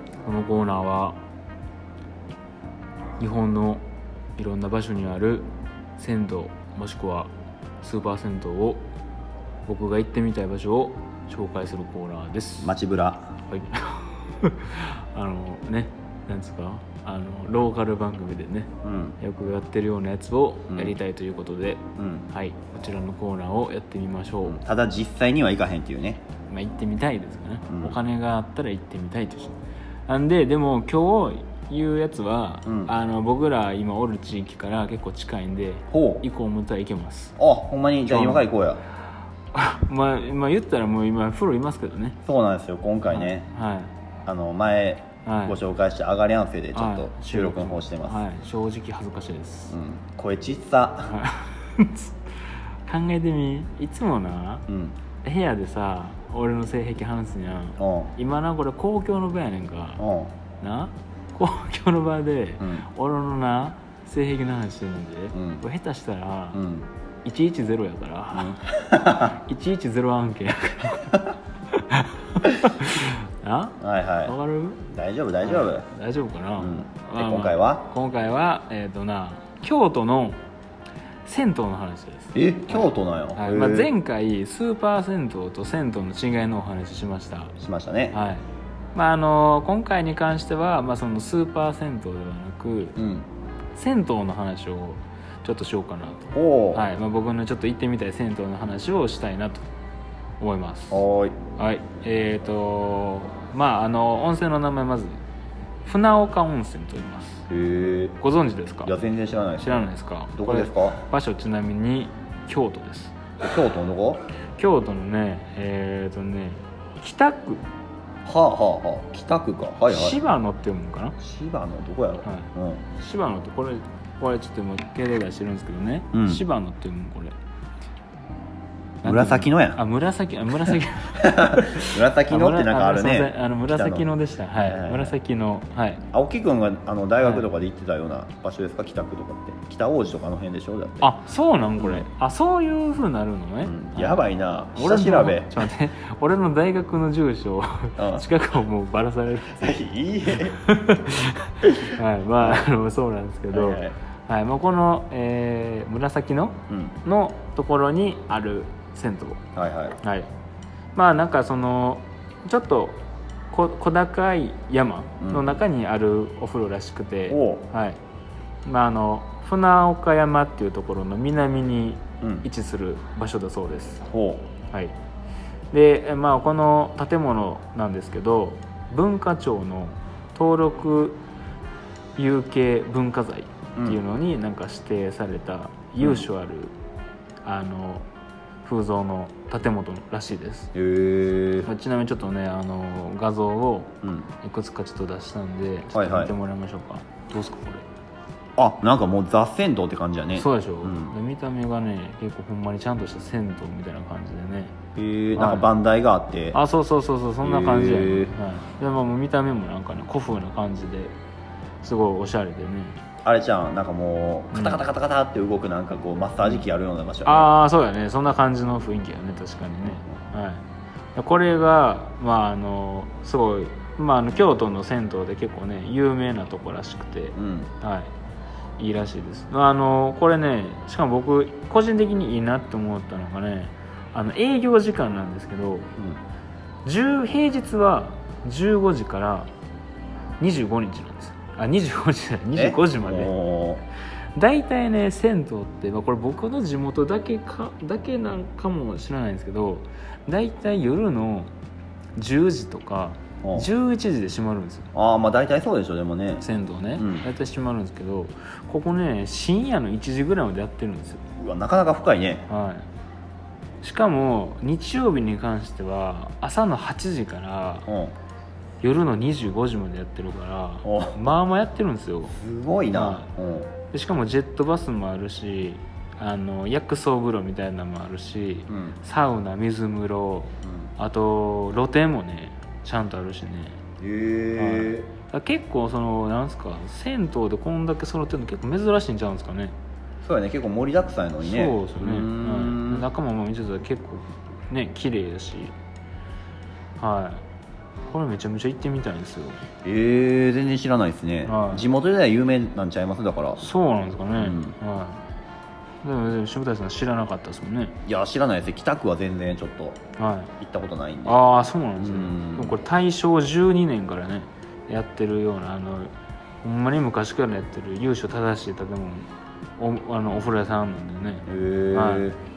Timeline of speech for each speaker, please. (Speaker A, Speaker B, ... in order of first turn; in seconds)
Speaker A: 0.2-1.2, 3.2-3.8, 4.4-7.3, 7.8-8.8, 9.7-12.7, 13.5-24.6, 26.5-37.3, 38.0-38.5, 39.5-42.2, 43.1-43.9, 45.2-45.6, 46.7-49.7, 51.1-52.1, 52.8-54.7, 55.2-60.0, 60.6-66.6, 67.2-74.8, 75.4-80.4, 81.2-87.6, 88.1-93.0, 93.8-99.7, 100.4-101.0, 101.6-105.2, 105.8-107.4, 108.2-108.9, 109.6-113.2, 114.5-117.6, 119.9-121.2, 122.2-127.3, 129.0-136.0, 137.2-137.5, 141.0-144.2, 144.8-149.8, 150.5-159.4, 160.0-160.3, 160.9-168.0, 168.7-174.1, 174.7-175.0, 175.7-181.2, 182.2-186.7, 187.4-188.1, 188.6-190.7, 191.7-197.8, 200.3-204.8, 205.4-205.7, 206.5-211.1, 211.8-213.0, 214.5-214.8, 217.2-220.6, 221.2-228.1, 228.8-235.9, 236.8-239.5, 240.4-243.3, 244.3-251.5, 252.2-254.9, 256.4-261.2, 262.5-262.9, 263.8-267.9, 268.8-272.4, 272.9-273.3, 273.9-283.8, 284.5-289.8, 291.4-295.7, 297.0-297.4, 298.1-299.6, 301.4-301.9, 303.6-305.2, 306.0-307.9, 310.2-310.5, 311.2-316.1, 316.6-322.3
Speaker B: 12.6-13.3, 18.8-19.2, 22.0-22.3, 24.4-26.2, 27.7-28.0, 32.7-32.9, 35.9-36.2, 37.4-38.8, 42.2-43.5, 44.2-48.2, 49.7-51.2, 54.7-55.0, 57.8-58.1, 60.0-60.3, 62.6-62.9, 65.3-65.6, 66.5-66.9, 68.3-69.3, 73.8-74.3, 74.9-75.9, 76.6-77.9, 82.3-83.9, 87.6-88.2, 93.0-93.3, 96.3-96.9, 100.9-101.4, 107.5-108.2, 108.8-111.0, 113.4-114.2, 118.2-120.2, 121.2-122.8, 126.1-126.4, 129.0-129.8, 131.2-135.2, 136.1-141.1, 141.8-142.1, 143.6-145.7, 148.0-148.3, 149.6-150.6, 152.4-152.6, 153.5-154.0, 156.7-157.0, 159.6-160.0, 165.2-165.6, 167.3-167.6, 174.1-174.5, 186.0-186.2, 190.8-191.7, 194.0-194.3, 195.9-196.3, 198.6-201.2, 204.9-206.6, 207.4-208.3, 213.2-217.5, 227.4-227.7, 242.6-243.8, 253.4-253.7, 254.9-256.4, 257.0-257.3, 261.4-262.4, 267.9-268.1, 270.8-271.3, 272.4-273.7, 278.7-278.9, 280.6-280.9, 284.0-285.1, 290.2-293.1, 299.8-303.6, 304.3-304.8, 308.1-310.0, 310.6-311.4, 312.0-312.8, 321.5-322.4